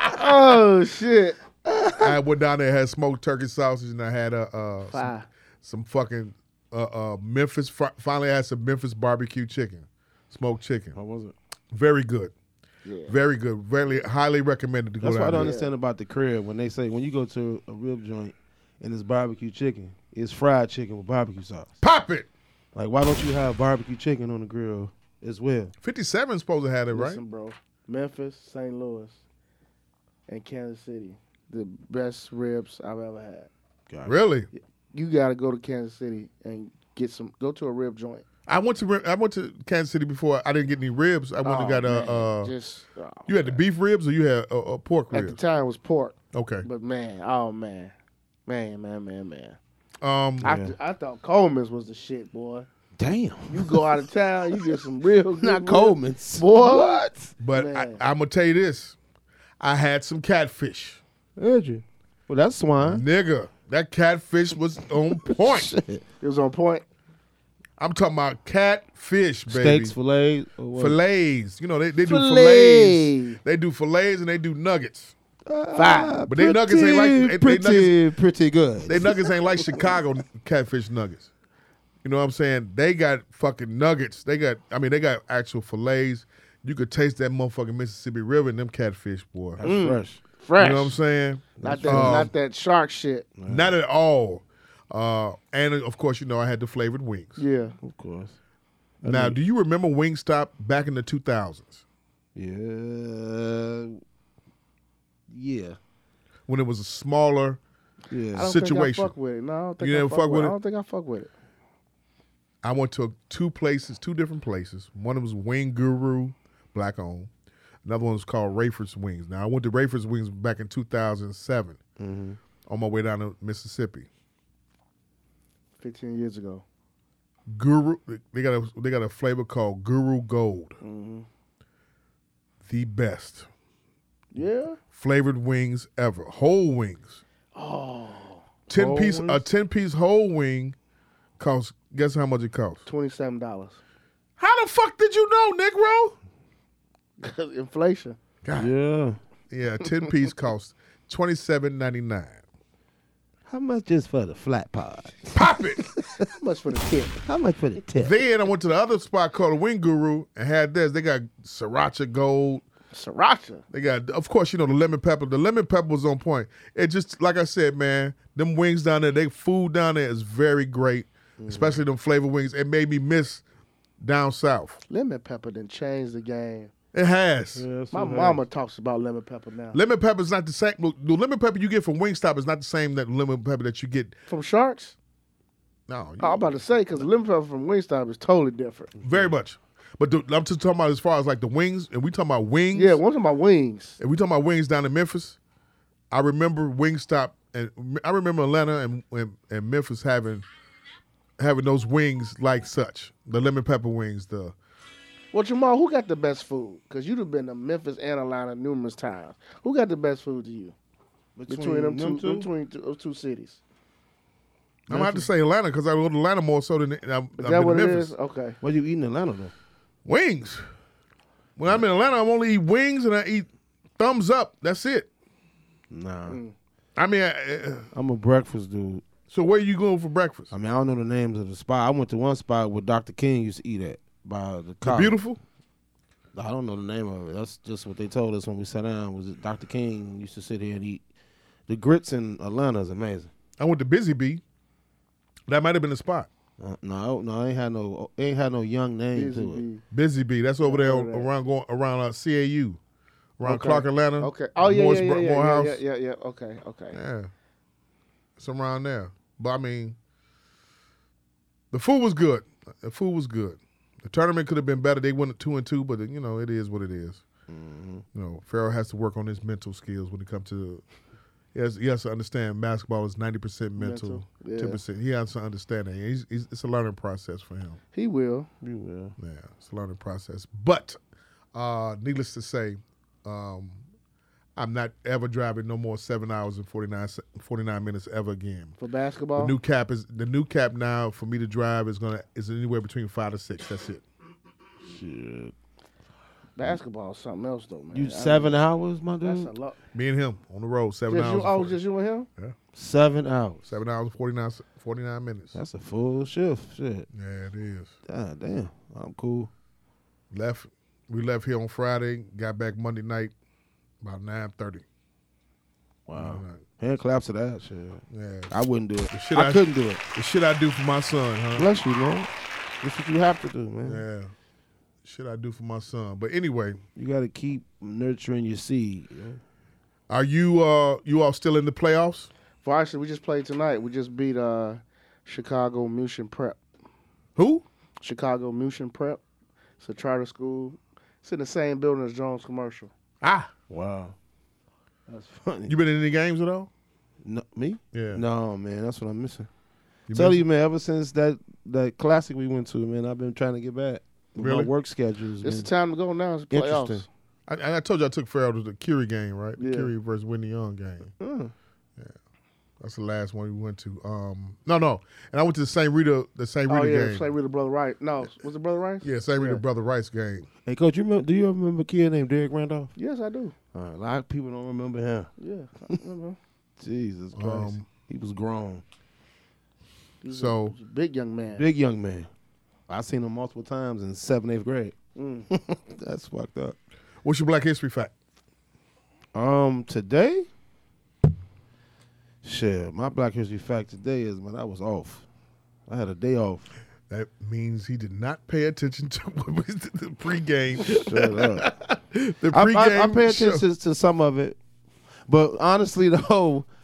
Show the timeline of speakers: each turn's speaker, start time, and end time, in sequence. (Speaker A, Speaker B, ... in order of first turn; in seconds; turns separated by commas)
Speaker A: 0.1-1.4, Speaker B: 1.6-2.1, Speaker C: 2.0-11.0, Speaker A: 4.9-5.3, Speaker B: 10.9-11.3, Speaker C: 11.7-12.3, Speaker A: 12.9-13.2, Speaker C: 13.1-15.5, Speaker B: 15.0-21.7, Speaker A: 15.3-15.7, Speaker C: 21.8-22.3, Speaker B: 22.8-25.7, Speaker C: 25.8-27.2, Speaker A: 26.9-29.2, Speaker A: 30.3-33.5, Speaker B: 33.9-34.2, Speaker C: 34.0-34.5, Speaker A: 34.5-38.2, Speaker C: 38.5-42.5, Speaker A: 41.4-43.6, Speaker C: 43.3-45.4, Speaker A: 45.1-47.9, Speaker C: 46.3-46.7, Speaker A: 48.5-49.6, Speaker C: 50.0-50.5, Speaker B: 50.4-50.7, Speaker A: 50.4-52.7, Speaker B: 53.0-53.9, Speaker A: 53.5-58.0, Speaker B: 55.4-57.3, Speaker C: 57.4-59.0, Speaker C: 59.6-61.0, Speaker B: 61.4-63.0, Speaker C: 62.8-65.7, Speaker B: 65.2-66.0, Speaker A: 66.2-66.8, Speaker C: 67.8-70.0, Speaker B: 69.5-71.0, Speaker C: 70.8-75.1, Speaker B: 72.1-72.5, Speaker A: 72.1-73.4, Speaker B: 75.5-79.9, Speaker A: 75.7-76.2, Speaker C: 76.3-78.0, Speaker C: 78.8-81.3, Speaker C: 82.0-89.7, Speaker B: 89.6-90.2, Speaker A: 89.6-91.0, Speaker C: 90.6-92.3, Speaker B: 91.6-92.3, Speaker A: 91.6-93.3, Speaker B: 93.4-93.7, Speaker C: 93.5-97.4, Speaker A: 97.4-97.8, Speaker B: 97.8-98.4, Speaker B: 99.0-99.4, Speaker C: 99.0-101.8, Speaker B: 102.3-104.0, Speaker B: 105.3-105.8, Speaker C: 106.5-107.6, Speaker B: 108.1-108.5, Speaker C: 108.3-109.1, Speaker A: 108.3-111.3, Speaker C: 109.8-110.5, Speaker C: 112.6-117.3, Speaker C: 117.8-121.8, Speaker B: 122.0-122.4, Speaker C: 122.7-124.1, Speaker A: 125.8-126.6, Speaker C: 127.5-130.8, Speaker A: 130.8-131.3, Speaker C: 132.7-133.5, Speaker A: 134.3-134.8, Speaker C: 134.9-137.2, Speaker A: 137.6-138.4, Speaker C: 138.7-140.8, Speaker B: 138.7-139.4, Speaker C: 141.4-142.8, Speaker A: 142.9-143.8, Speaker C: 144.4-146.2, Speaker A: 147.2-148.2, Speaker C: 148.4-148.7, Speaker B: 148.6-149.2, Speaker C: 149.5-152.4, Speaker B: 153.5-156.3, Speaker C: 155.3-155.9, Speaker A: 156.2-157.2, Speaker B: 157.2-158.2, Speaker C: 158.0-162.6, Speaker A: 162.9-163.6, Speaker C: 163.7-173.4, Speaker B: 171.4-171.8, Speaker C: 174.0-174.8, Speaker A: 174.9-176.7, Speaker C: 176.9-177.7, Speaker B: 177.6-178.4, Speaker A: 177.9-179.8, Speaker C: 179.7-184.2, Speaker A: 184.3-185.0, Speaker C: 185.9-186.6, Speaker A: 186.2-188.9, Speaker C: 189.0-193.0, Speaker A: 192.7-194.0, Speaker C: 194.0-195.4, Speaker C: 196.1-200.4, Speaker C: 201.4-204.6, Speaker A: 205.3-210.7, Speaker B: 211.4-212.5, Speaker A: 211.5-213.6, Speaker C: 214.9-218.1, Speaker B: 214.9-215.2, Speaker A: 217.4-218.6, Speaker B: 218.6-219.5, Speaker C: 220.1-220.7, Speaker C: 221.6-225.1, Speaker B: 225.9-226.4, Speaker A: 226.3-226.5, Speaker C: 227.0-227.9, Speaker B: 227.9-229.1, Speaker C: 229.3-230.5, Speaker B: 230.5-235.2, Speaker C: 234.8-235.4, Speaker B: 236.3-241.0, Speaker B: 241.7-243.3, Speaker C: 243.6-244.4, Speaker C: 245.5-246.3, Speaker B: 246.6-249.6, Speaker A: 249.1-249.8, Speaker C: 249.9-252.8, Speaker A: 250.6-251.3, Speaker C: 253.4-255.8, Speaker A: 253.4-257.0, Speaker C: 256.9-257.3, Speaker C: 258.4-260.0, Speaker C: 261.7-267.2, Speaker B: 267.5-268.1, Speaker C: 268.1-270.8, Speaker C: 271.5-277.8, Speaker A: 273.8-274.8, Speaker A: 277.9-278.5, Speaker B: 278.6-279.1, Speaker C: 279.2-281.0, Speaker C: 281.5-283.8, Speaker C: 284.6-288.8, Speaker A: 288.8-289.6, Speaker C: 289.4-294.0, Speaker B: 294.8-295.5, Speaker A: 296.6-298.6, Speaker B: 297.9-299.5, Speaker A: 299.2-299.8, Speaker C: 299.9-301.8, Speaker A: 301.1-302.3, Speaker B: 302.8-303.7, Speaker C: 303.7-305.6, Speaker B: 305.6-307.1, Speaker C: 307.1-307.9, Speaker B: 308.1-309.5, Speaker C: 310.3-313.3, Speaker C: 314.0-314.9, Speaker B: 316.1-320.0, Speaker C: 316.2-316.6, Speaker C: 318.1-321.7, Speaker B: 321.6-322.3, Speaker B: 322.8-324.0, Speaker C: 323.8-324.3, Speaker C: 325.0-326.8, Speaker B: 327.0-329.4, Speaker C: 330.1-332.3, Speaker A: 332.6-336.6, Speaker C: 337.4-337.6, Speaker A: 338.0-339.2, Speaker A: 339.8-342.9, Speaker C: 343.2-343.5, Speaker B: 343.6-344.1, Speaker B: 345.1-345.8, Speaker C: 345.7-346.7, Speaker B: 347.2-349.5, Speaker C: 347.9-348.2, Speaker C: 350.1-350.4, Speaker B: 350.1-355.7, Speaker C: 354.4-354.7, Speaker A: 355.4-357.1, Speaker B: 356.5-357.1, Speaker C: 357.5-361.1, Speaker A: 359.6-359.9, Speaker B: 361.2-361.5, Speaker C: 362.8-367.3, Speaker A: 366.7-369.6, Speaker C: 369.0-370.5, Speaker B: 370.7-372.9, Speaker A: 373.0-373.6, Speaker B: 373.7-375.3, Speaker A: 375.4-376.4, Speaker B: 376.8-378.8, Speaker C: 377.4-377.9, Speaker A: 380.2-381.6, Speaker C: 380.3-380.8, Speaker B: 381.6-382.3, Speaker B: 382.9-384.9, Speaker A: 385.2-385.5, Speaker B: 385.5-386.8, Speaker C: 387.2-388.1, Speaker B: 389.3-390.5, Speaker B: 392.4-395.2, Speaker B: 395.9-396.7, Speaker C: 397.1-403.6, Speaker B: 400.8-401.7, Speaker B: 402.5-404.6, Speaker B: 405.3-406.7